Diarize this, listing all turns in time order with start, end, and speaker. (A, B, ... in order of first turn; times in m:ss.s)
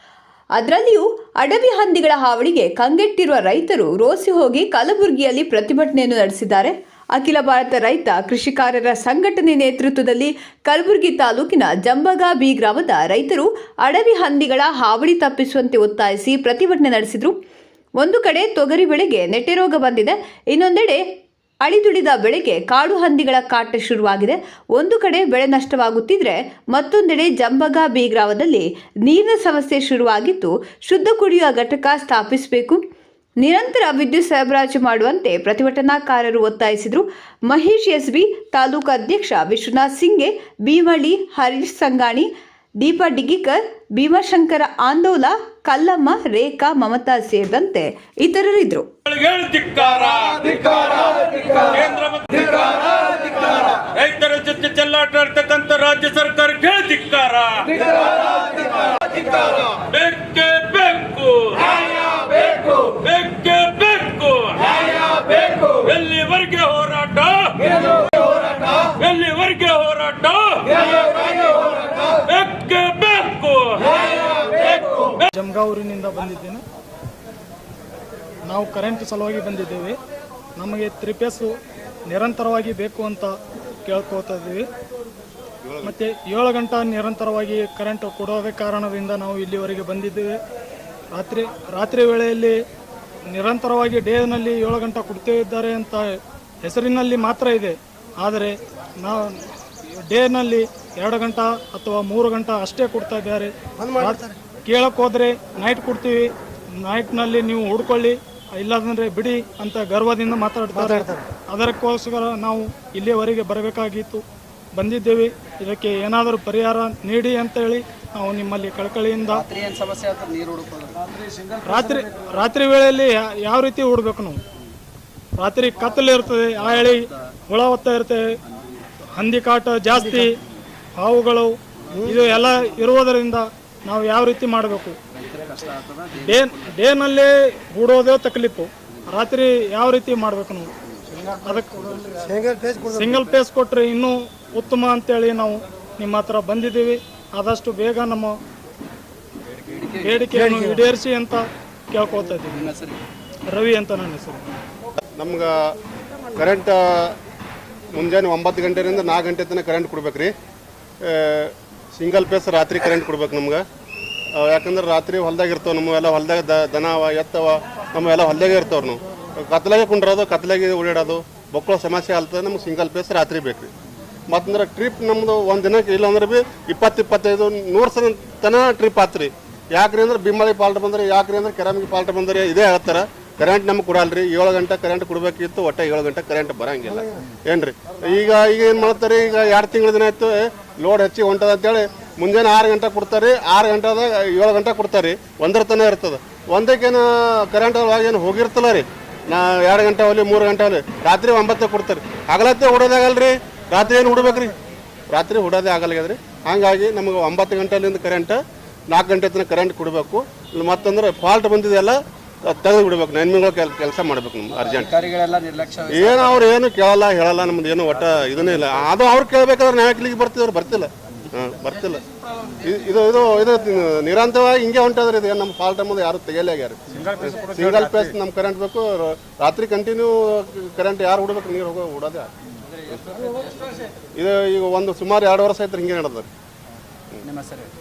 0:00.6-0:17.4 A
0:18.0-0:21.0 A
0:21.6-0:32.8 A
0:33.4-0:42.3 A
0:42.8-0:48.9 A
0:49.0-1:15.2 B
1:15.3-1:16.6 C
1:18.5-1:20.0 C
1:20.6-1:21.5 C
1:22.1-1:23.3 C
1:23.9-1:24.6 C
1:25.7-1:25.9 D
1:25.8-1:30.4 C
1:31.1-1:32.6 C
1:33.3-1:39.5 C
1:40.1-1:46.3 C
1:46.8-1:54.2 C
1:54.8-1:59.5 C
1:59.5-2:01.0 E
2:01.6-2:04.4 C
2:05.4-2:08.4 C
2:09.2-2:10.4 C
2:11.0-2:15.0 C
2:15.2-2:16.1 E
2:16.2-2:20.7 C
2:21.3-2:21.9 C
2:22.2-2:22.8 E
2:22.8-2:28.4 C
2:30.0-2:32.7 C
2:33.5-2:34.4 C
2:35.2-2:35.6 D
2:36.3-2:37.2 D
2:37.9-2:40.3 D
2:41.0-2:43.6 D
2:44.3-2:53.7 D
2:54.3-3:24.5 D
3:25.1-3:28.4 D
3:28.9-3:35.0 D
3:35.0-3:35.9 E
3:35.9-3:52.3 D
3:54.2-3:56.3 D
3:57.4-3:57.7 E